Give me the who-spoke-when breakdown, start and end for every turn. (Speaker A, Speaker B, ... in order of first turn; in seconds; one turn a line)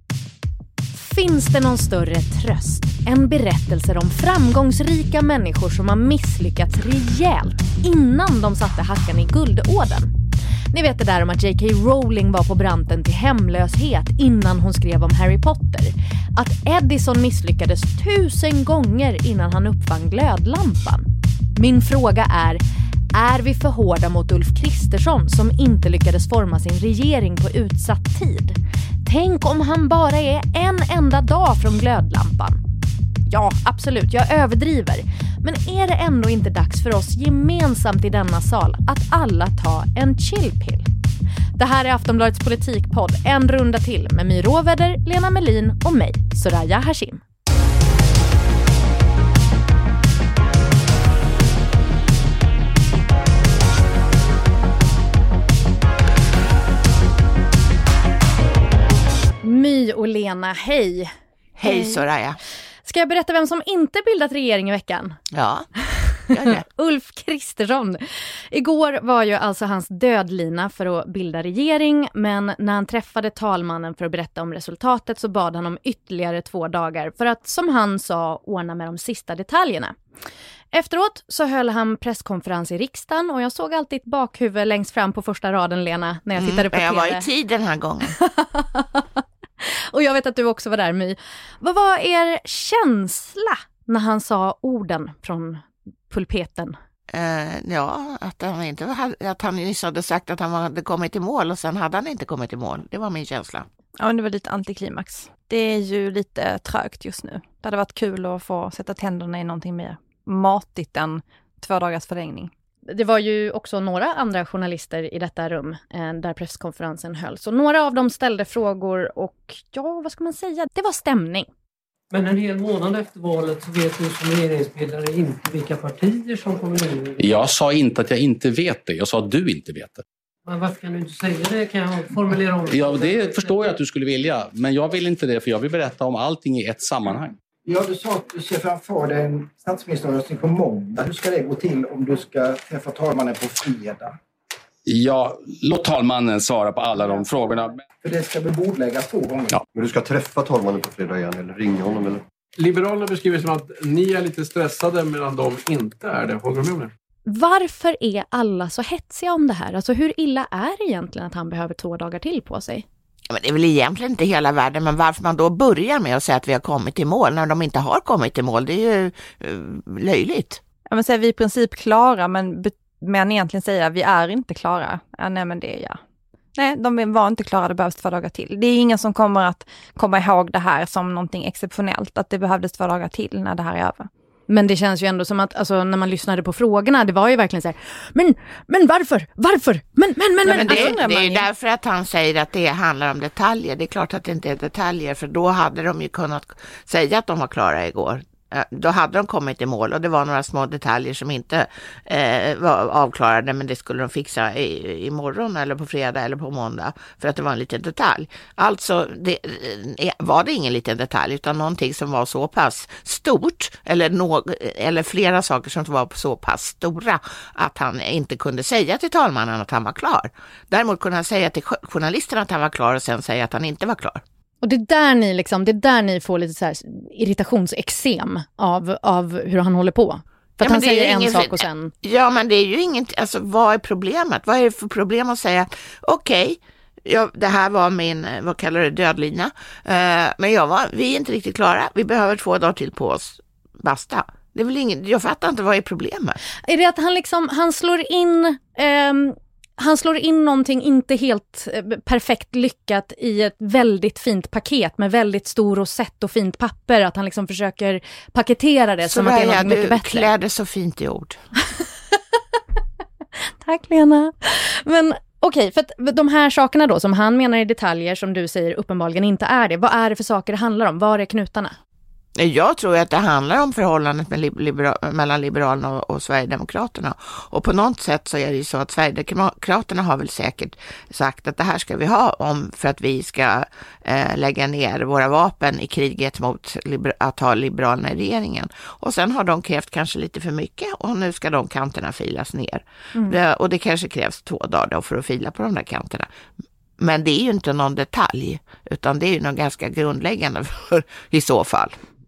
Speaker A: 0.9-10.1
Speaker A: 10.7-22.6
Speaker A: 23.1-32.6
Speaker A: 33.3-40.9
Speaker A: 41.6-47.2
Speaker A: 59.4-61.1
Speaker B: 61.6-62.4
Speaker A: 61.6-62.0
Speaker A: 62.8-65.2
Speaker B: 65.3-65.7
Speaker A: 65.9-80.0
Speaker B: 66.3-66.7
Speaker A: 80.7-87.3
Speaker B: 86.4-88.2
Speaker A: 88.2-96.8
Speaker B: 97.1-103.7
Speaker C: 104.0-112.5
Speaker A: 112.9-121.5
Speaker D: 122.1-127.4
Speaker E: 127.2-130.0
Speaker D: 130.5-133.8
Speaker E: 132.7-137.4
Speaker F: 137.7-144.2
Speaker E: 144.9-147.8
Speaker F: 148.0-149.6
Speaker G: 149.7-152.2
Speaker H: 152.6-156.9
Speaker A: 157.3-162.8
Speaker B: 163.3-170.6
Speaker C: 170.9-176.0
Speaker C: 176.6-184.1
Speaker A: 184.5-191.0
Speaker C: 190.4-191.5
Speaker B: 190.5-224.2
Speaker A: 224.6-231.9
Speaker B: 230.6-246.4
Speaker A: 246.7-260.3
Speaker B: 259.0-261.4
Speaker A: 263.6-271.8
Speaker B: 272.4-296.3
Speaker B: 297.0-302.0